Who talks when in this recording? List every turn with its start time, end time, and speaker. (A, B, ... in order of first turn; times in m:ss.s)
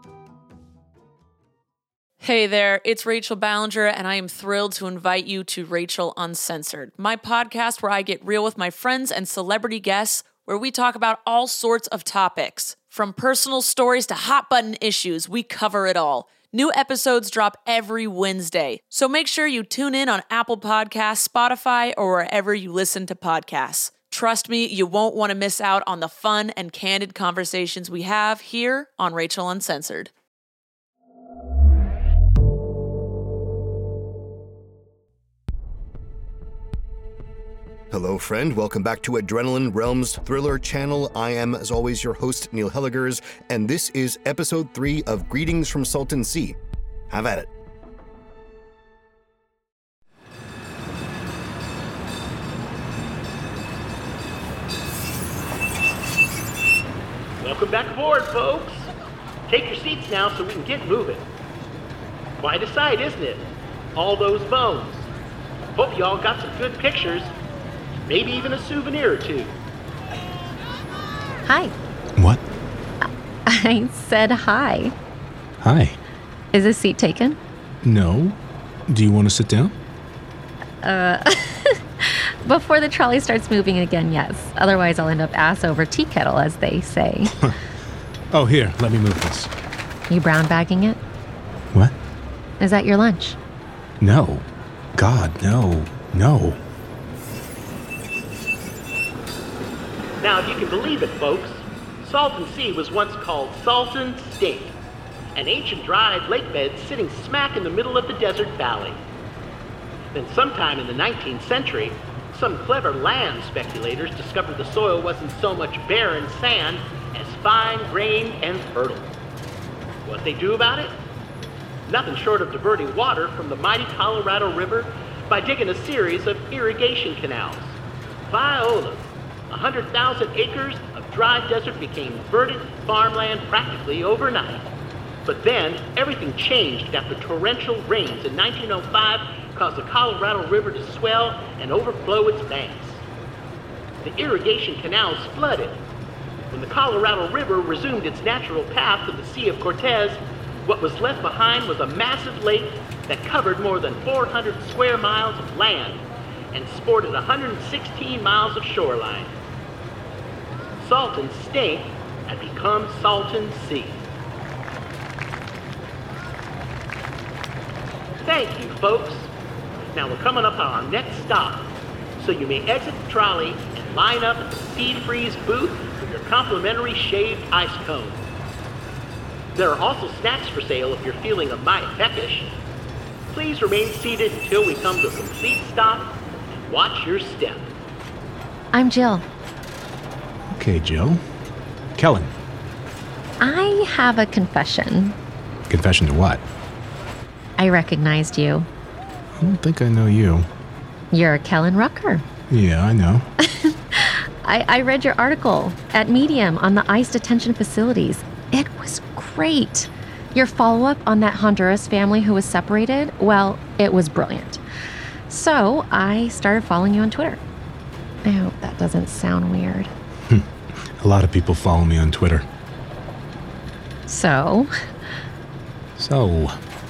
0:02.2-0:30.1 A
0:37.9-0:46.6 B
0:47.1-0:47.5 B
0:57.4-0:58.9 C
0:59.5-1:01.3 C
1:02.4-1:05.1 C
1:05.8-1:07.3 C
1:08.1-1:09.5 C
1:11.4-1:11.7 D
1:13.5-1:14.9 D
1:15.6-1:16.0 E
1:16.5-1:17.4 D
1:17.8-1:18.4 E
1:18.9-1:19.7 E
1:20.8-1:27.4 D
1:28.3-1:29.5 E
1:30.1-1:31.0 D
1:32.6-1:33.4 D
1:34.0-1:36.6 E
1:40.2-1:44.8 C
1:45.3-1:49.0 C
1:50.1-1:59.2 C
2:00.0-2:00.9 C
2:01.8-2:07.8 C
2:08.3-2:14.7 C
2:15.2-2:23.0 C
2:24.0-2:25.8 C
2:26.5-2:39.4 C
2:40.8-2:44.0 C
2:48.2-2:49.3 C
2:49.9-2:58.3 C
2:59.5-3:02.5 C
3:03.3-3:07.7 C
3:08.7-3:09.2 D
3:10.5-3:11.2 E
3:12.0-3:12.3 E
3:13.4-3:15.2 D
3:15.7-3:16.4 E
3:17.6-3:18.7 D
3:19.4-3:20.5 E
3:21.1-3:22.2 D
3:22.5-3:23.2 E
3:23.4-3:34.6 D
3:35.3-3:37.4 D
3:38.2-3:39.9 D
3:40.3-3:42.4 E
3:44.0-3:44.7 D
3:46.0-3:46.6 E